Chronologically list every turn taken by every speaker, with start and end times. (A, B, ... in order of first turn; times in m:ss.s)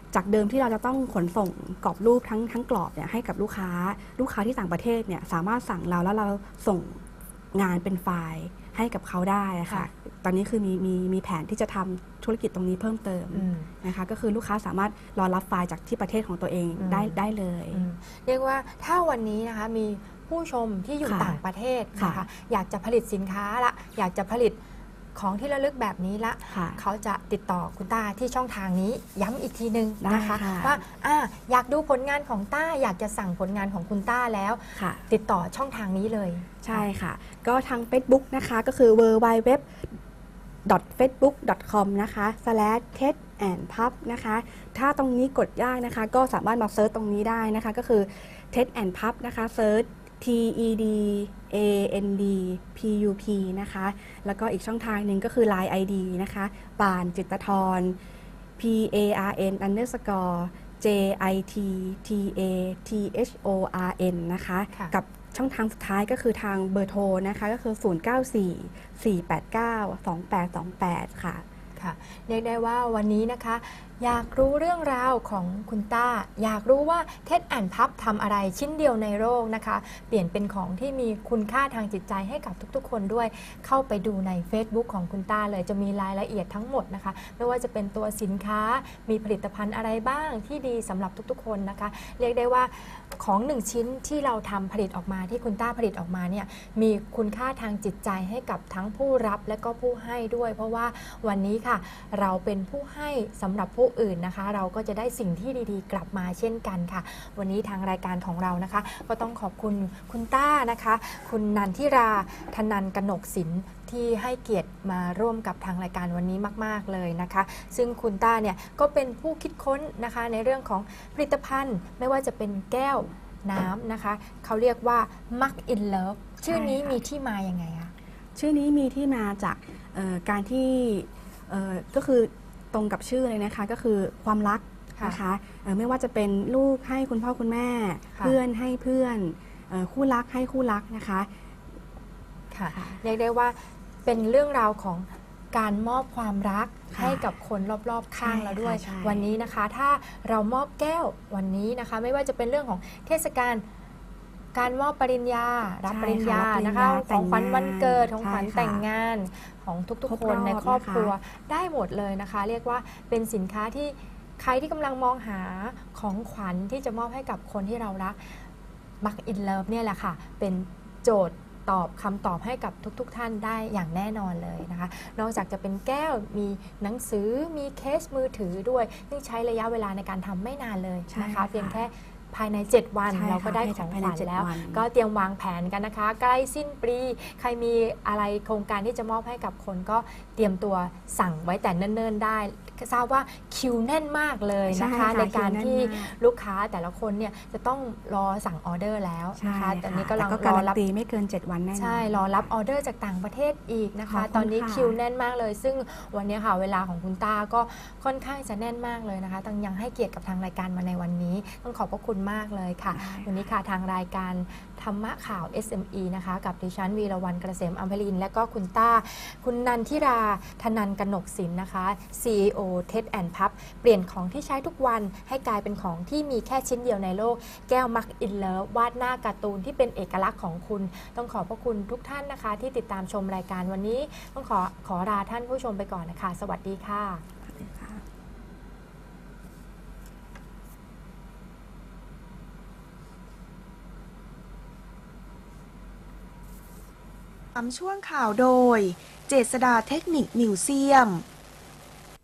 0:00.1-0:17.8 A
0:13.3-0:13.7 B
0:16.8-0:17.2 B
0:17.7-0:24.6 B
0:21.0-0:21.4 A
0:22.0-0:22.2 A
0:25.1-0:36.9 B
0:26.5-0:26.8 A
0:30.0-0:30.8 A
0:34.7-0:35.0 A
0:36.6-0:40.0 A
0:40.6-0:58.0 A
0:58.6-1:11.4 A
1:11.8-2:07.9 B
2:06.5-2:07.0 A
2:08.3-2:21.3 A
2:22.5-2:33.6 B
2:22.7-2:23.0 A
2:26.9-2:27.3 A
2:28.2-2:29.3 A
2:34.5-2:48.4 B
2:35.9-2:38.8 A
2:40.0-2:41.1 A
2:49.0-3:20.8 B
3:01.1-3:01.8 A
3:03.1-3:04.8 A
3:14.7-3:16.1 A
3:19.4-3:22.5 A
3:21.7-3:57.2 B
3:24.0-3:24.9 A
3:32.9-3:33.4 A
3:57.4-3:58.0 A
4:07.5-4:11.2 C